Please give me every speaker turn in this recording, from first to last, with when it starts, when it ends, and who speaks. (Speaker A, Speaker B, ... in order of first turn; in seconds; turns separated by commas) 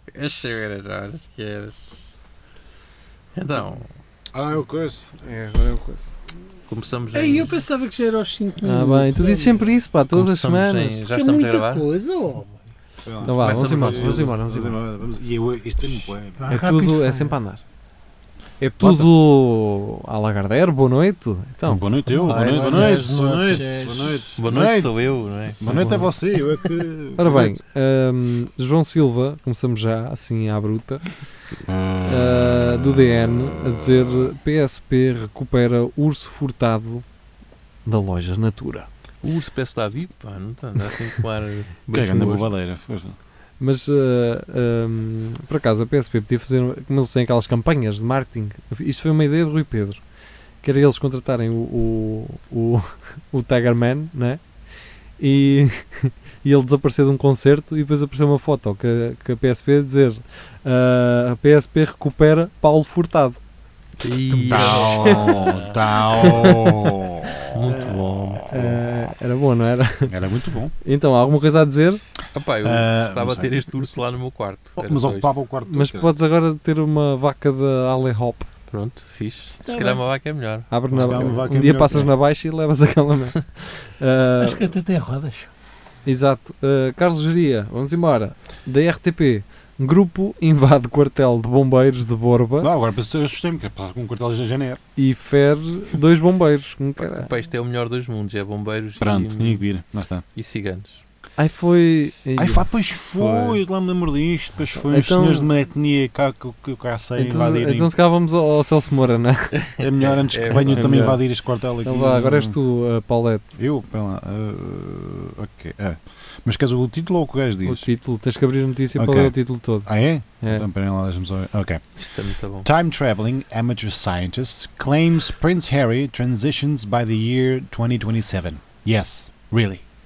Speaker A: 0.1-1.8, Speaker A: 3.3-3.9, Speaker B: 4.3-5.2, Speaker C: 5.2-6.1, Speaker A: 6.7-7.6, Speaker D: 7.1-9.8, Speaker C: 8.6-11.0, Speaker A: 10.1-11.9, Speaker D: 11.1-12.6, Speaker B: 13.1-16.4, Speaker C: 13.2-14.8, Speaker A: 13.4-14.3, Speaker D: 16.4-17.4, Speaker C: 16.5-17.6, Speaker C: 18.6-21.8, Speaker B: 18.8-19.1, Speaker B: 21.7-24.9, Speaker D: 22.1-24.3, Speaker A: 22.2-23.0, Speaker A: 24.4-25.8, Speaker B: 25.6-27.6, Speaker D: 25.6-26.1, Speaker C: 27.2-31.1, Speaker B: 31.6-33.3, Speaker C: 32.0-37.0, Speaker C: 37.8-38.9, Speaker A: 39.2-42.5, Speaker B: 41.9-43.2, Speaker C: 43.6-50.0, Speaker C: 50.6-54.4, Speaker C: 55.2-63.4, Speaker A: 64.0-66.5, Speaker B: 64.3-68.8, Speaker C: 64.7-66.9, Speaker A: 67.5-68.5, Speaker C: 67.7-70.1, Speaker B: 70.1-70.7, Speaker C: 70.8-72.0, Speaker A: 72.3-75.3, Speaker B: 72.6-73.7, Speaker B: 74.8-76.1, Speaker C: 75.7-78.5, Speaker A: 78.7-80.7, Speaker D: 79.6-80.0, Speaker C: 80.7-84.7, Speaker B: 80.9-82.1, Speaker D: 84.4-85.5, Speaker C: 86.0-92.7, Speaker B: 92.6-94.8, Speaker C: 95.0-97.3, Speaker A: 97.0-99.7, Speaker B: 99.0-100.2, Speaker A: 100.3-101.0, Speaker C: 101.4-102.7, Speaker B: 102.4-107.9, Speaker A: 103.2-103.6, Speaker C: 104.7-105.5, Speaker C: 107.2-109.6, Speaker A: 109.6-111.1, Speaker B: 109.8-112.6, Speaker C: 110.5-111.2, Speaker C: 111.8-113.5, Speaker B: 113.5-117.9, Speaker C: 117.6-119.9, Speaker B: 119.0-122.0, Speaker C: 120.4-120.7, Speaker A: 122.0-122.7, Speaker B: 122.6-129.8